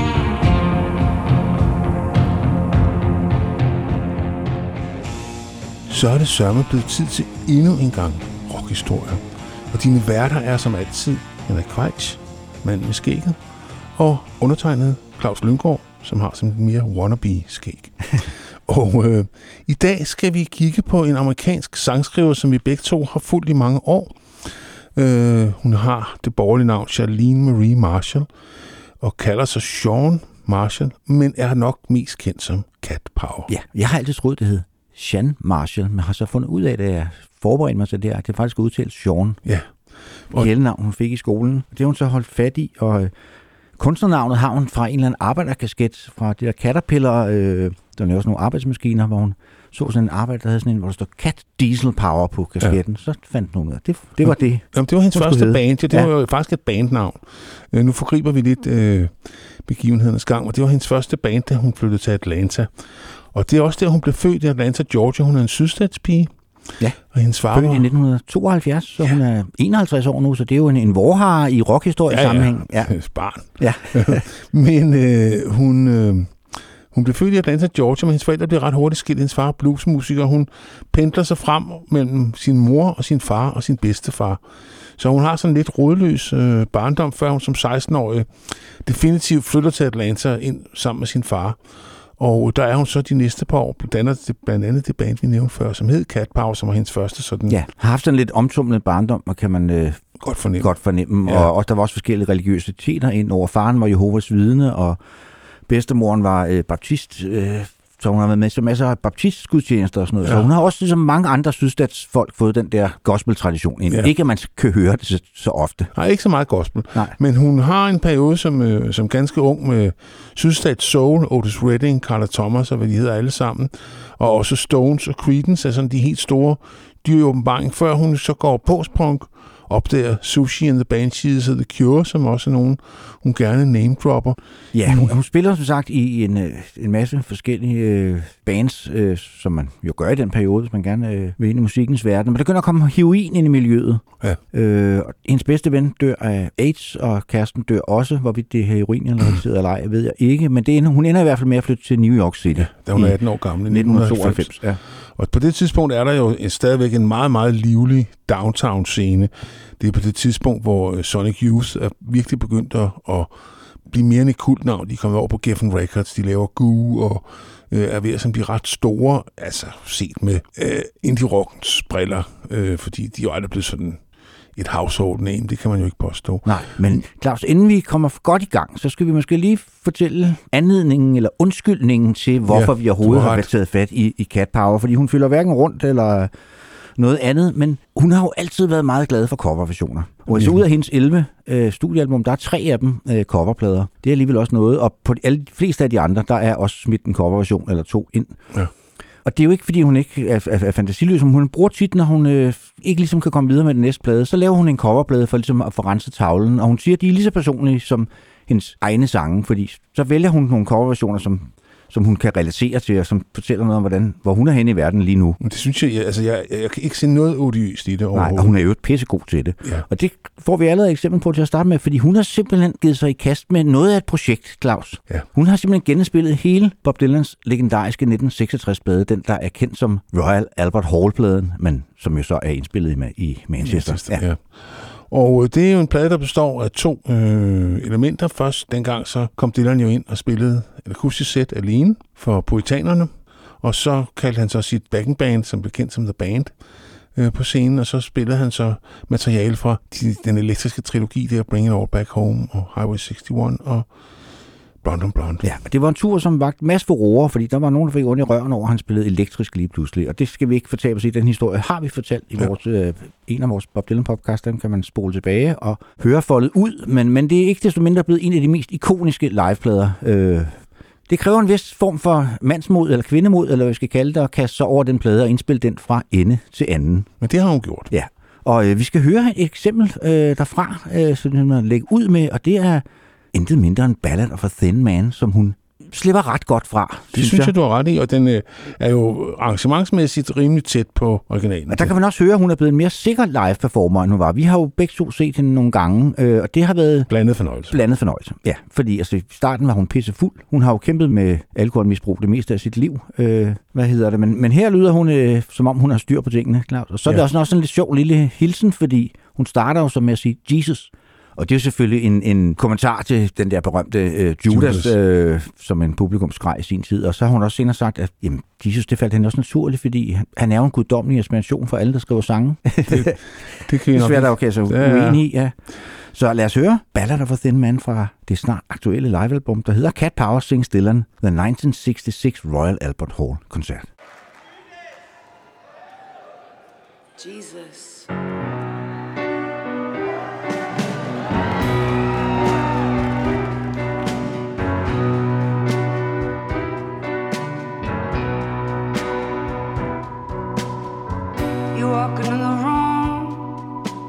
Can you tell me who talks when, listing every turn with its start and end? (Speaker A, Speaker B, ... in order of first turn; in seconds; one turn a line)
Speaker A: 5.9-13.4
Speaker A: 14.0-28.3
Speaker A: 29.0-33.5
Speaker B: 33.5-39.4
Speaker A: 39.5-39.7
Speaker B: 40.3-43.1
Speaker B: 43.8-56.1
Speaker A: 54.7-66.3
Speaker A: 67.1-67.9
Speaker B: 67.5-72.9
Speaker A: 72.1-84.4
Speaker B: 73.6-74.2
Speaker A: 85.0-91.6
Speaker A: 92.2-97.6
Speaker B: 97.5-105.0
Speaker A: 100.2-100.7
Speaker B: 105.7-115.9
Speaker A: 115.9-135.1
Speaker B: 134.7-153.2
Speaker A: 152.6-163.3
Speaker B: 153.7-154.8
Speaker A: 163.8-174.0
Speaker A: 174.6-176.5
Speaker B: 176.5-186.3
Speaker A: 182.5-183.5
Speaker B: 187.0-198.4
Speaker A: 190.3-190.6
Speaker B: 199.2-215.4
Speaker A: 215.4-218.6
Speaker B: 218.2-234.2
Speaker A: 233.6-246.5
Speaker A: 247.2-253.9
Speaker A: 254.8-255.5
Speaker B: 255.4-277.1
Speaker A: 277.2-277.9
Speaker B: 277.9-287.5
Speaker A: 287.1-291.9
Speaker B: 291.7-297.1
Speaker A: 297.1-297.8
Speaker B: 297.7-323.2
Speaker A: 314.5-314.9
Speaker A: 322.9-325.2
Speaker B: 323.9-333.9
Speaker C: 337.2-338.1
Speaker C: 351.7-353.7